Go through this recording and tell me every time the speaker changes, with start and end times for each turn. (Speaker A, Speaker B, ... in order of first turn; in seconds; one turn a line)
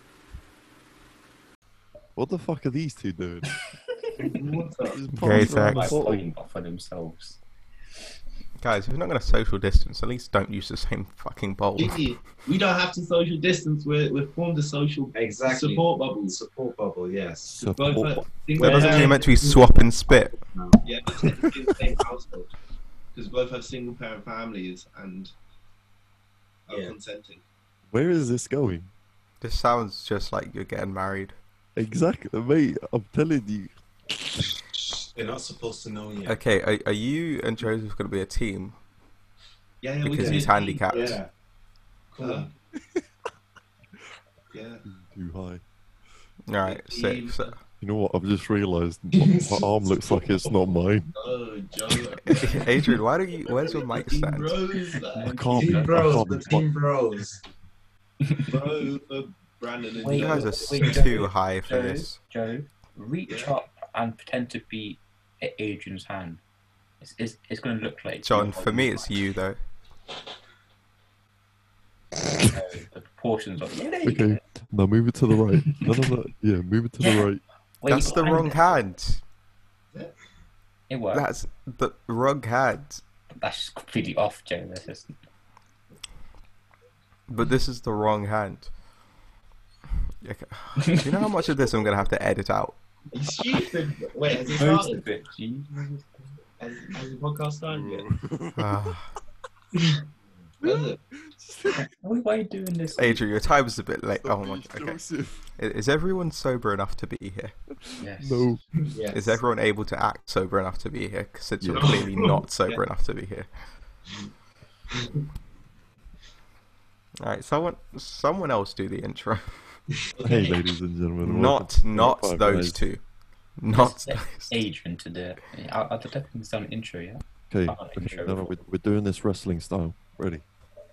Speaker A: 2.2-3.5
Speaker B: 4.3-5.0
Speaker C: 4.4-4.7
Speaker A: 4.8-6.3
Speaker D: 5.2-6.0
Speaker E: 5.2-7.4
Speaker D: 8.6-12.0
Speaker B: 11.8-16.4
Speaker C: 15.2-17.7
Speaker A: 17.6-18.3
Speaker B: 17.8-19.2
Speaker C: 18.6-20.8
Speaker D: 18.6-20.3
Speaker B: 20.9-22.5
Speaker A: 21.2-21.9
Speaker B: 23.1-25.3
Speaker B: 26.7-27.4
Speaker C: 26.7-26.9
Speaker A: 27.9-28.9
Speaker D: 29.4-31.4
Speaker A: 31.8-33.7
Speaker C: 34.8-36.4
Speaker D: 36.3-38.8
Speaker B: 39.8-41.2
Speaker D: 40.0-41.2
Speaker C: 40.2-41.3
Speaker C: 42.1-42.5
Speaker B: 42.2-42.5
Speaker B: 44.5-44.8
Speaker A: 44.9-45.6
Speaker D: 46.5-47.5
Speaker B: 46.6-47.5
Speaker A: 47.8-51.1
Speaker B: 49.1-52.7
Speaker D: 52.4-54.6
Speaker B: 53.5-55.6
Speaker E: 55.1-56.6
Speaker A: 55.2-56.6
Speaker C: 55.6-57.4
Speaker E: 58.3-58.8
Speaker B: 58.5-60.8
Speaker E: 60.0-66.4
Speaker D: 60.1-62.2
Speaker E: 67.0-69.2
Speaker D: 68.2-69.6
Speaker E: 72.4-74.4
Speaker A: 74.0-77.4
Speaker E: 77.0-77.3
Speaker E: 77.8-78.6
Speaker D: 77.9-79.2
Speaker E: 80.9-81.3
Speaker D: 81.1-83.0
Speaker E: 83.4-85.1
Speaker D: 87.3-88.7
Speaker D: 90.2-92.8
Speaker E: 90.9-91.3
Speaker B: 93.1-95.0
Speaker E: 94.5-96.2
Speaker B: 96.6-98.1
Speaker A: 97.7-98.9
Speaker D: 98.6-99.1
Speaker B: 100.6-101.0
Speaker A: 100.6-101.9
Speaker E: 101.8-103.2
Speaker D: 103.0-105.0
Speaker A: 104.2-105.5
Speaker D: 105.6-107.5
Speaker A: 107.8-108.6
Speaker E: 108.0-108.5
Speaker B: 108.9-109.4
Speaker D: 109.1-113.5
Speaker A: 111.6-112.0
Speaker E: 111.8-112.4
Speaker D: 117.2-119.5
Speaker B: 120.1-120.7
Speaker A: 120.2-122.9
Speaker D: 121.2-123.0
Speaker D: 123.6-124.5
Speaker E: 123.7-128.5
Speaker A: 127.5-130.4